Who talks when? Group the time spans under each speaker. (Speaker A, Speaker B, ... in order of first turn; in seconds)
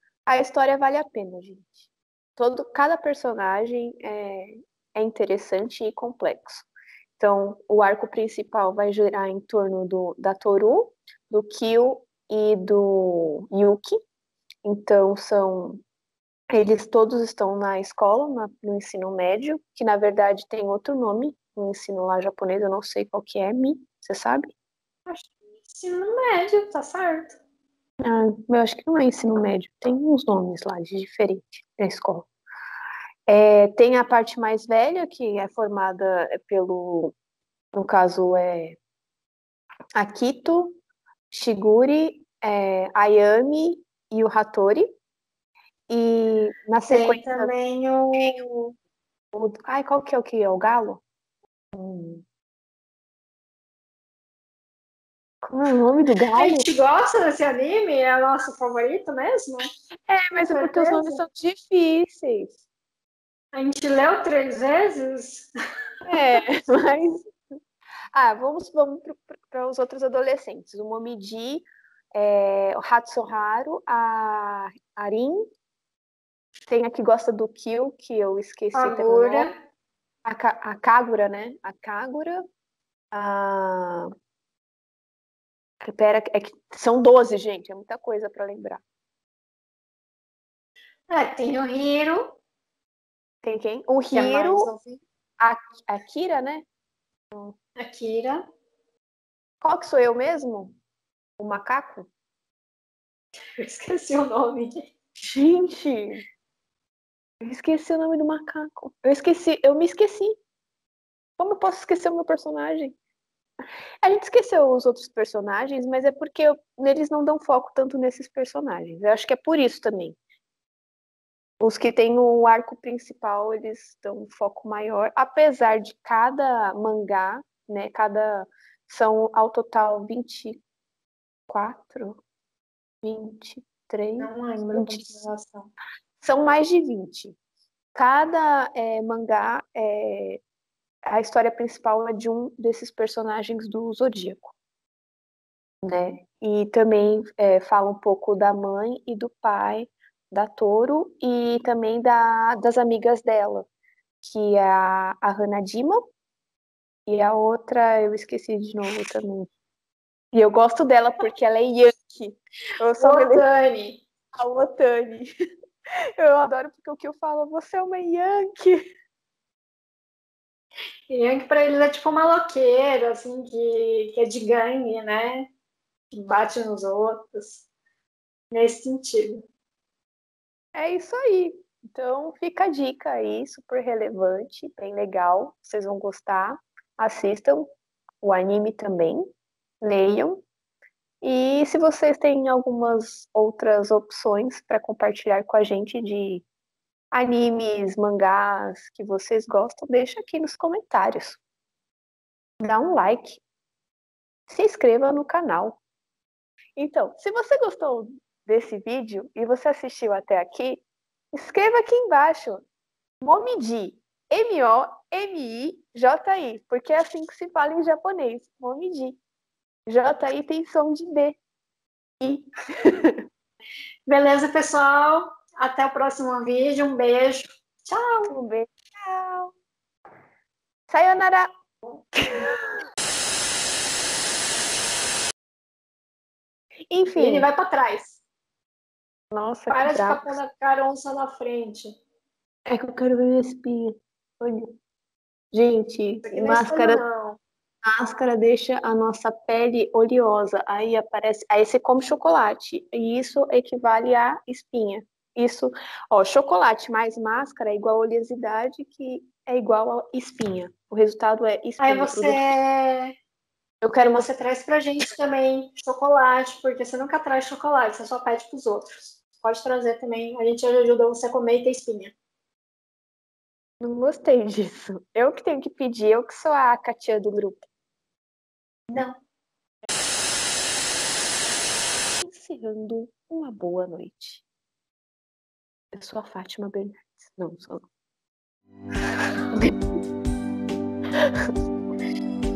Speaker A: 0.3-6.7, 7.2-14.0, 14.7-15.8, 16.5-24.5, 28.0-32.3, 33.3-37.1, 37.7-38.8, 40.0-40.8, 41.3-44.9, 45.9-47.5, 49.3-51.0, 51.7-52.2, 55.4-56.7, 60.1-62.5, 66.1-67.3, 68.1-75.5, 76.7-79.5, 80.2-82.5, 83.1-84.1, 85.8-88.8, 93.4-94.7, 95.4-96.7, 99.6-100.8, 101.4-102.1, 105.2-106.2, 107.4-110.4, 111.4-113.0, 114.0-120.2, 121.6-130.6, 131.5-132.2, 133.0-135.3, 136.2-137.4, 137.9-140.4, 141.1-144.5, 145.8-153.7, 154.2-156.0, 157.1-159.5, 160.3-163.5, 164.3-165.3, 166.2-168.8, 180.7-187.7, 188.2-189.3, 189.8-190.4, 191.2-196.4, 197.1-201.4, 202.6-203.4, 204.5-205.8, 206.8-212.6, 213.2-219.2, 219.9-221.4, 222.2-223.2, 228.3-229.5, 230.9-231.5, 232.2-232.5, 236.9-237.5, 239.3-240.3, 242.7-244.8, 245.5-247.0, 247.8-262.5, 263.8-264.3, 273.8-277.7, 282.2-284.4, 285.9-287.9, 291.2-291.5
Speaker B: 25.1-27.4, 46.9-48.7, 56.4-59.7, 60.5-61.2, 63.5-65.5, 78.7-79.5, 91.1-92.4, 94.1-95.0, 97.8-98.4, 103.6-104.9, 134.2-135.7, 163.0-164.0, 171.1-175.5, 176.1-177.7, 178.5-179.4, 224.1-228.3, 237.2-238.2, 239.7-241.9, 246.2-247.4, 261.8-263.1, 264.1-272.1, 278.9-279.2